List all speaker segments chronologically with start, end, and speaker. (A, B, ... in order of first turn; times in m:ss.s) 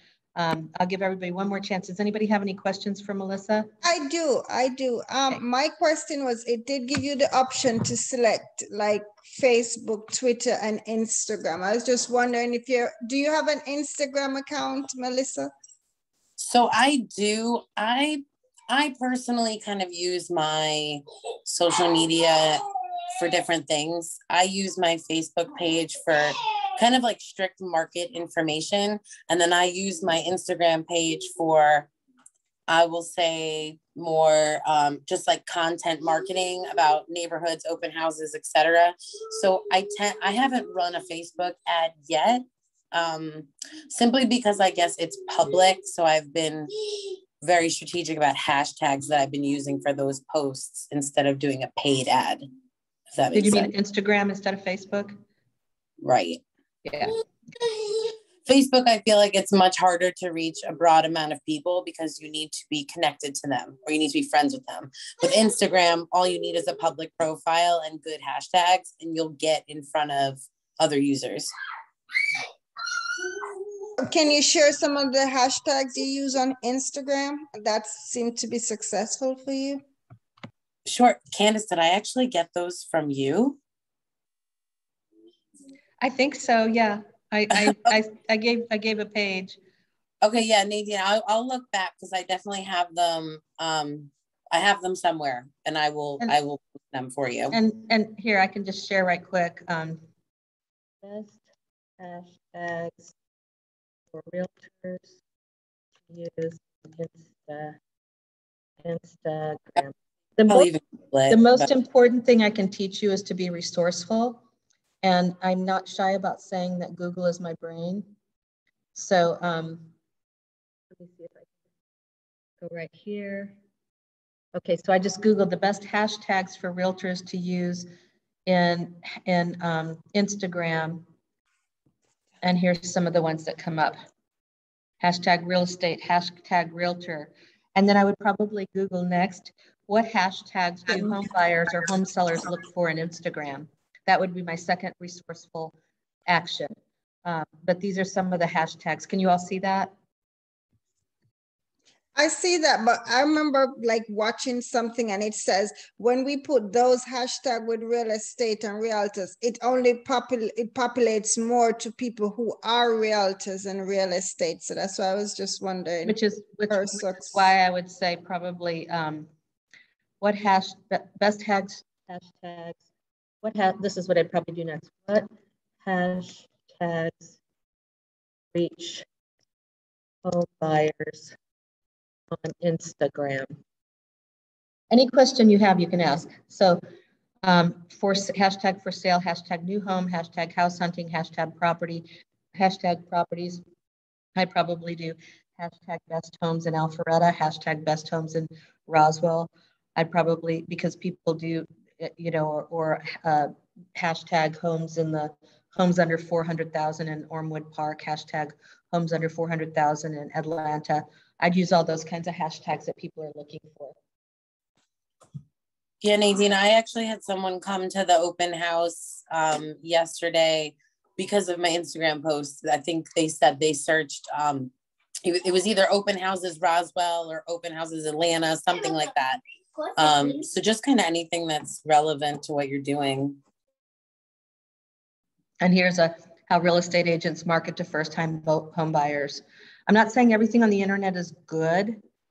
0:00.4-0:03.7 A
0:03.8-0:15.5 B
0:16.4-0:31.9 C
0:32.7-0:46.7 C
0:47.4-0:52.4 C
0:53.1-0:53.7 C
0:53.3-0:55.1 A
0:56.0-0:56.4 C
0:56.8-0:57.1 A
0:58.4-1:11.5 C
1:14.0-1:19.8 B
1:20.9-1:23.6 C
1:26.0-1:29.6 A
1:30.2-1:37.6 C
1:37.5-1:40.0 A
1:41.0-1:41.4 A
1:42.0-1:43.1 A
1:44.1-1:45.2 A
1:46.1-1:47.8 A
1:48.8-1:50.7 A
1:50.5-1:51.7 C
1:51.3-1:54.4 A
1:55.0-1:58.1 A
1:58.9-1:59.9 A
2:00.9-2:01.5 A
2:02.6-2:03.6 A
2:04.5-2:07.9 A
2:08.4-2:11.0 A
2:12.4-2:14.0 A
2:15.0-2:25.7 A
2:26.3-2:29.9 A
2:32.1-2:46.1 B
2:46.0-2:49.3 A
2:46.7-2:47.4 B
2:50.2-2:52.8 A
2:53.4-2:55.3 A
2:55.8-2:57.4 A
2:58.5-2:59.0 A
3:00.2-3:01.3 A
3:02.3-3:03.6 A
3:04.9-3:06.8 A
3:07.4-3:13.6 A
3:14.4-3:34.0 A
3:36.0-3:44.7 C
3:45.2-3:49.4 C
3:50.0-3:53.4 C
3:55.6-4:02.0 A